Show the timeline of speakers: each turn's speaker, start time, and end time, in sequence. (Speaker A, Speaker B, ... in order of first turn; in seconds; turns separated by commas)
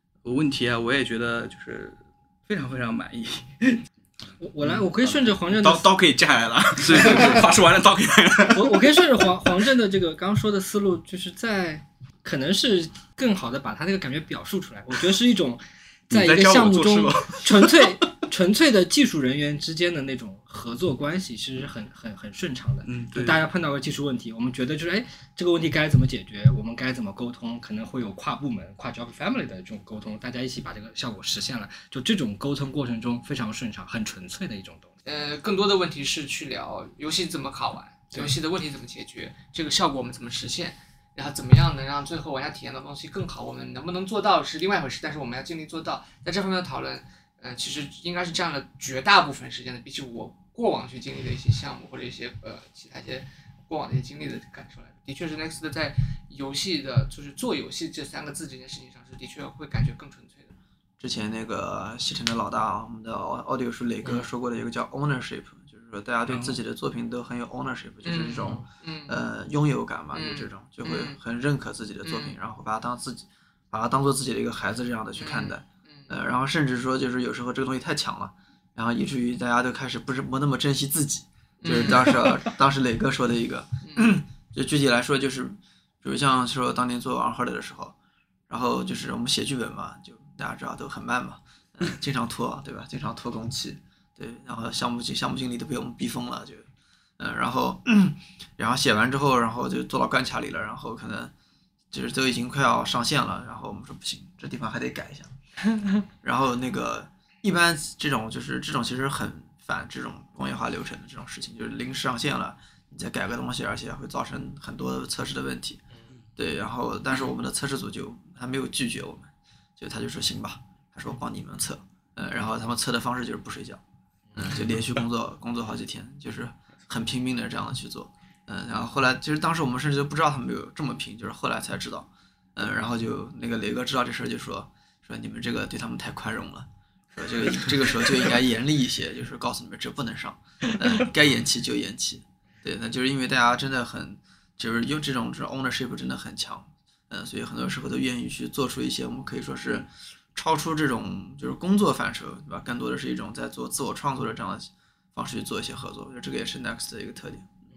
Speaker A: 0.2-3.8, Speaker B: 4.4-5.9, Speaker C: 4.6-9.3, Speaker A: 6.8-7.4, Speaker B: 6.9-7.4, Speaker B: 8.5-34.9, Speaker C: 16.1-17.9, Speaker A: 22.8-23.4, Speaker D: 35.0-60.5, Speaker E: 61.0-87.9, Speaker D: 68.0-69.2, Speaker D: 70.1-71.2, Speaker D: 72.0-72.3, Speaker D: 75.2-76.1, Speaker D: 81.6-82.4, Speaker D: 83.8-84.2, Speaker E: 88.5-96.7, Speaker E: 97.2-101.3, Speaker E: 101.9-105.3, Speaker E: 106.2-115.8, Speaker E: 116.4-123.8, Speaker E: 124.3-157.5